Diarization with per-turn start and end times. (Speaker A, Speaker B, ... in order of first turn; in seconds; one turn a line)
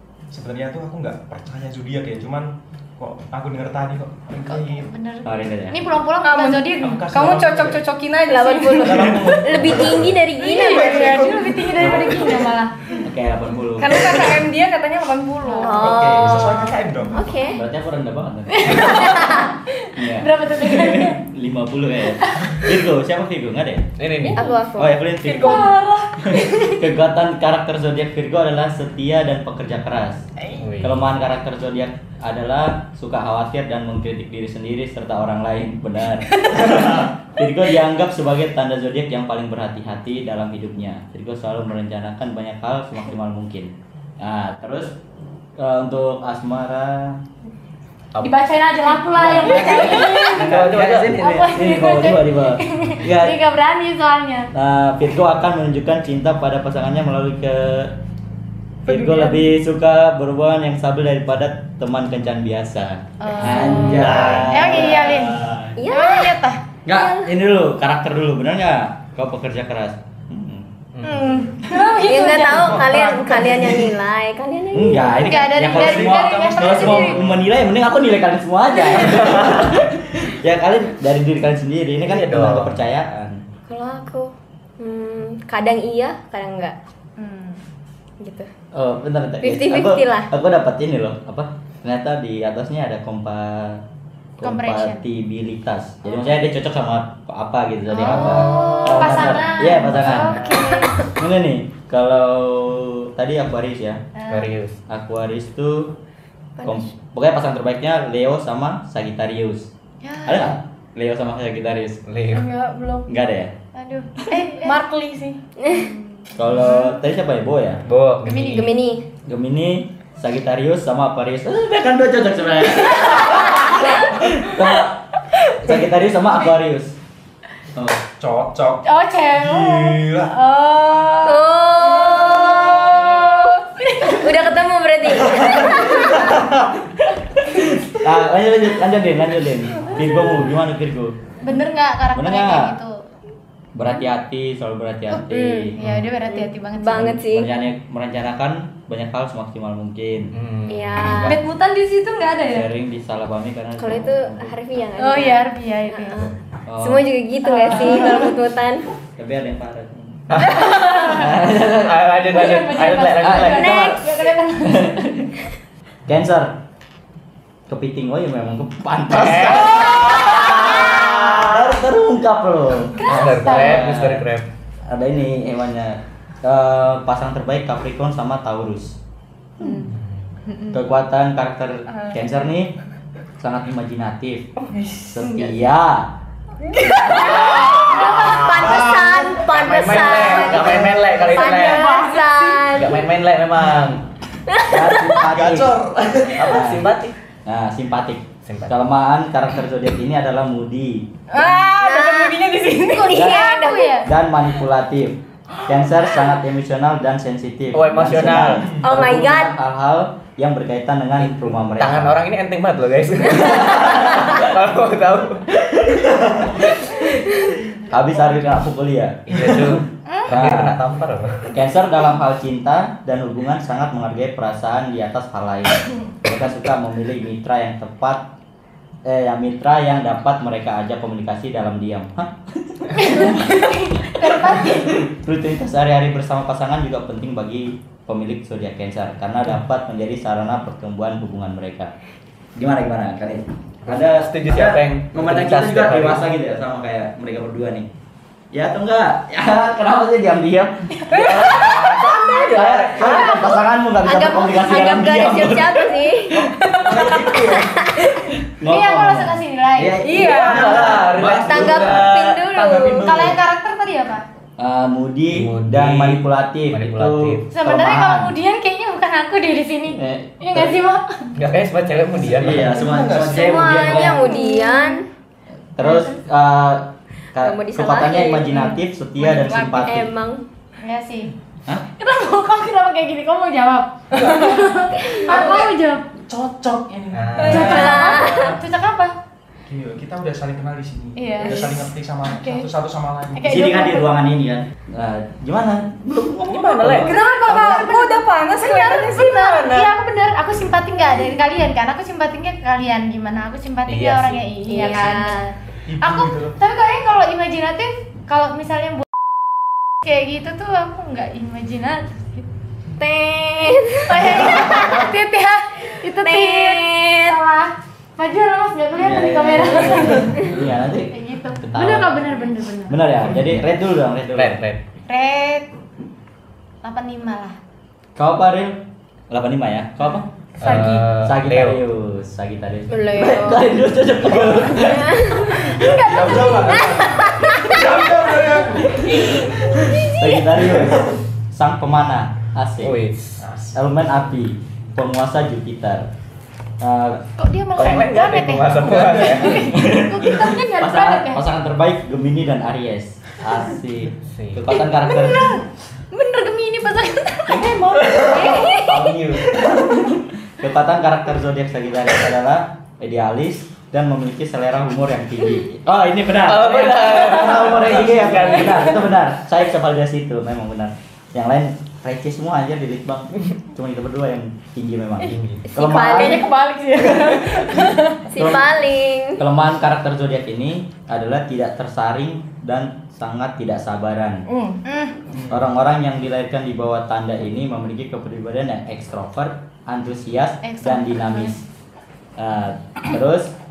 Speaker A: 0.3-4.9
Speaker B: 4.5-7.0
Speaker C: 5.2-5.8
Speaker D: 6.2-9.1
Speaker A: 6.8-7.8
Speaker E: 8.3-11.2
Speaker A: 8.7-12.4
Speaker B: 10.4-12.7
Speaker D: 10.7-12.2
Speaker C: 13.0-14.4
Speaker D: 13.8-15.8
Speaker B: 15.4-15.9
Speaker E: 15.6-17.6
Speaker A: 15.8-17.2
Speaker C: 17.4-19.3
Speaker B: 18.5-21.2
Speaker C: 19.9-23.9
Speaker B: 22.2-22.7
Speaker F: 24.0-24.4
Speaker E: 24.3-25.0
Speaker C: 24.8-30.2
Speaker D: 25.2-26.7
Speaker B: 25.4-25.9
Speaker F: 30.6-31.0
Speaker C: 30.8-45.0
Speaker C: 45.6-47.2
Speaker B: 48.2-50.6
Speaker C: 49.1-53.4
Speaker F: 49.4-51.2
Speaker D: 49.6-50.0
Speaker B: 51.1-54.5
Speaker C: 54.5-58.0
Speaker C: 58.9-65.8
Speaker D: 58.9-59.5
Speaker B: 63.2-66.6
Speaker E: 65.8-66.4
Speaker C: 66.8-70.7
Speaker E: 66.9-67.3
Speaker F: 70.9-71.4
Speaker B: 71.0-72.6
Speaker D: 71.7-72.7
Speaker E: 72.0-75.3
Speaker A: 72.4-74.0
Speaker C: 74.7-83.4
Speaker B: 75.2-77.2
Speaker A: 75.6-77.5
Speaker F: 79.0-79.7
Speaker F: 82.0-82.8
Speaker E: 83.7-86.8
Speaker B: 87.2-87.6
Speaker E: 88.2-88.5
Speaker C: 88.7-93.8
Speaker E: 89.4-90.3
Speaker C: 94.4-100.5
Speaker B: 94.4-95.0
Speaker B: 97.9-101.1
Speaker E: 98.2-99.2
Speaker F: 99.9-100.4
Speaker C: 101.1-104.0
Speaker B: 104.2-104.5
Speaker F: 104.3-104.8
Speaker C: 104.9-105.9
Speaker C: 106.6-109.7
Speaker B: 110.0-110.5
Speaker C: 110.2-112.0
Speaker F: 112.1-112.5
Speaker D: 112.3-113.1
Speaker C: 113.1-113.5
Speaker B: 113.7-114.8
Speaker D: 114.5-115.4
Speaker E: 115.6-115.8
Speaker B: 115.7-116.9
Speaker C: 116.3-117.8
Speaker F: 117.8-118.7
Speaker B: 118.2-118.7
Speaker E: 118.4-119.0
Speaker C: 119.2-125.0
Speaker C: 125.6-127.0
Speaker C: 127.7-128.0
Speaker A: 128.2-130.3
Speaker B: 128.8-134.4
Speaker E: 131.2-136.3
Speaker B: 135.6-136.3
Speaker C: 135.8-141.2
Speaker B: 141.4-143.0
Speaker C: 142.1-142.8
Speaker C: 143.7-145.8
Speaker B: 145.1-147.2
Speaker E: 145.3-145.7
Speaker F: 145.8-146.1
Speaker E: 146.3-147.5
Speaker C: 146.9-150.3
Speaker F: 150.3-151.2
Speaker E: 150.7-151.4
Speaker C: 151.0-151.4
Speaker B: 151.2-152.6
Speaker C: 152.4-154.5
Speaker E: 153.8-158.8
Speaker B: 155.0-156.3
Speaker C: 156.7-157.1
Speaker B: 157.4-158.3
Speaker C: 159.2-165.3
Speaker F: 160.3-163.8
Speaker B: 160.4-161.3
Speaker B: 162.3-165.0
Speaker E: 163.5-164.0
Speaker C: 166.1-166.6
Speaker C: 167.7-174.2
Speaker F: 169.1-171.7
Speaker F: 173.0-174.4
Speaker B: 173.1-173.9
Speaker C: 174.9-178.9
Speaker B: 179.6-179.9
Speaker F: 179.8-180.2
Speaker B: 180.5-180.8
Speaker C: 180.7-182.7
Speaker C: 183.4-184.5
Speaker D: 184.7-185.5
Speaker C: 185.1-186.1
Speaker D: 186.6-187.2
Speaker F: 187.1-192.0
Speaker E: 187.2-193.0
Speaker A: 188.6-189.4
Speaker A: 190.5-191.1
Speaker D: 191.4-192.6
Speaker B: 191.8-192.1
Speaker F: 192.7-194.0
Speaker E: 194.5-195.2
Speaker C: 194.7-195.8
Speaker A: 195.2-196.6
Speaker C: 196.4-196.9
Speaker F: 196.4-197.1
Speaker C: 197.4-201.1
Speaker F: 198.4-198.7
Speaker D: 201.3-203.2
Speaker E: 201.8-202.4
Speaker B: 202.9-204.1
Speaker E: 203.1-204.0
Speaker C: 203.1-203.5
Speaker C: 204.0-212.2
Speaker F: 207.7-208.7
Speaker A: 208.4-208.8
Speaker E: 208.8-209.6
Speaker F: 211.2-215.5
Speaker C: 213.4-214.4
Speaker C: 215.6-216.9
Speaker F: 216.6-217.2
Speaker C: 217.9-220.8
Speaker F: 219.3-221.5
Speaker C: 221.5-228.3
Speaker C: 229.0-241.9
Speaker B: 232.9-235.1
Speaker C: 242.6-247.9
Speaker F: 243.9-246.3
Speaker C: 248.5-251.2
Speaker D: 251.1-251.8
Speaker F: 251.1-253.4
Speaker C: 252.3-257.5
Speaker E: 254.0-256.4
Speaker D: 256.6-257.0
Speaker A: 256.7-257.8
Speaker E: 257.6-258.1
Speaker C: 258.1-262.2
Speaker B: 258.7-260.2
Speaker D: 260.0-260.9
Speaker F: 260.2-262.8
Speaker E: 261.4-263.1
Speaker B: 262.9-264.2
Speaker C: 264.6-268.4
Speaker F: 265.3-267.5
Speaker B: 267.5-271.3
Speaker C: 269.9-270.8
Speaker F: 271.3-272.8
Speaker C: 272.2-274.3
Speaker A: 272.4-274.1
Speaker E: 273.3-275.0
Speaker B: 274.2-274.9
Speaker C: 275.8-280.1
Speaker B: 275.8-276.1
Speaker E: 277.4-278.5
Speaker D: 279.2-279.8
Speaker E: 279.8-280.4
Speaker B: 280.8-281.3
Speaker B: 282.0-286.1
Speaker A: 284.1-284.7
Speaker A: 285.2-288.6
Speaker D: 285.3-285.6
Speaker F: 287.1-287.9
Speaker B: 287.4-289.1
Speaker E: 287.4-288.6
Speaker A: 289.7-293.6
Speaker B: 291.1-292.7
Speaker B: 293.3-294.2
Speaker C: 293.4-297.8
Speaker F: 296.5-297.1
Speaker D: 297.0-299.9
Speaker B: 297.1-305.4
Speaker F: 303.9-305.1
Speaker E: 304.6-305.5
Speaker A: 305.9-306.6
Speaker B: 306.0-309.1
Speaker B: 310.0-312.4
Speaker E: 313.0-314.5
Speaker B: 314.1-323.1
Speaker E: 316.1-317.4
Speaker C: 318.9-322.3
Speaker C: 322.9-324.6
Speaker F: 324.3-324.8
Speaker B: 325.1-325.7
Speaker B: 326.8-327.6
Speaker C: 328.1-328.8
Speaker C: 329.3-336.5
Speaker F: 330.6-331.8
Speaker E: 332.9-333.7
Speaker A: 334.3-334.7
Speaker E: 334.8-335.7
Speaker A: 335.7-339.4
Speaker B: 335.8-336.9
Speaker E: 337.1-337.7
Speaker C: 338.9-343.0
Speaker F: 342.8-343.4
Speaker A: 343.4-343.8
Speaker C: 343.7-346.1
Speaker C: 346.8-347.2
Speaker B: 347.4-351.4
Speaker F: 347.7-349.8
Speaker A: 348.9-349.2
Speaker C: 349.5-355.6
Speaker F: 354.2-354.7
Speaker D: 355.1-355.5
Speaker D: 356.1-357.5
Speaker B: 356.2-357.5
Speaker C: 357.5-378.8
Speaker F: 358.0-358.3
Speaker B: 358.3-358.9
Speaker F: 358.8-359.5
Speaker F: 366.4-369.0
Speaker A: 368.0-368.5
Speaker F: 375.3-375.6
Speaker E: 375.7-376.5
Speaker D: 376.1-378.2
Speaker E: 378.3-379.4
Speaker C: 379.4-384.4
Speaker D: 384.5-384.8
Speaker B: 384.8-385.1
Speaker A: 385.3-385.6
Speaker C: 385.5-391.6
Speaker B: 390.6-391.6
Speaker C: 392.4-393.5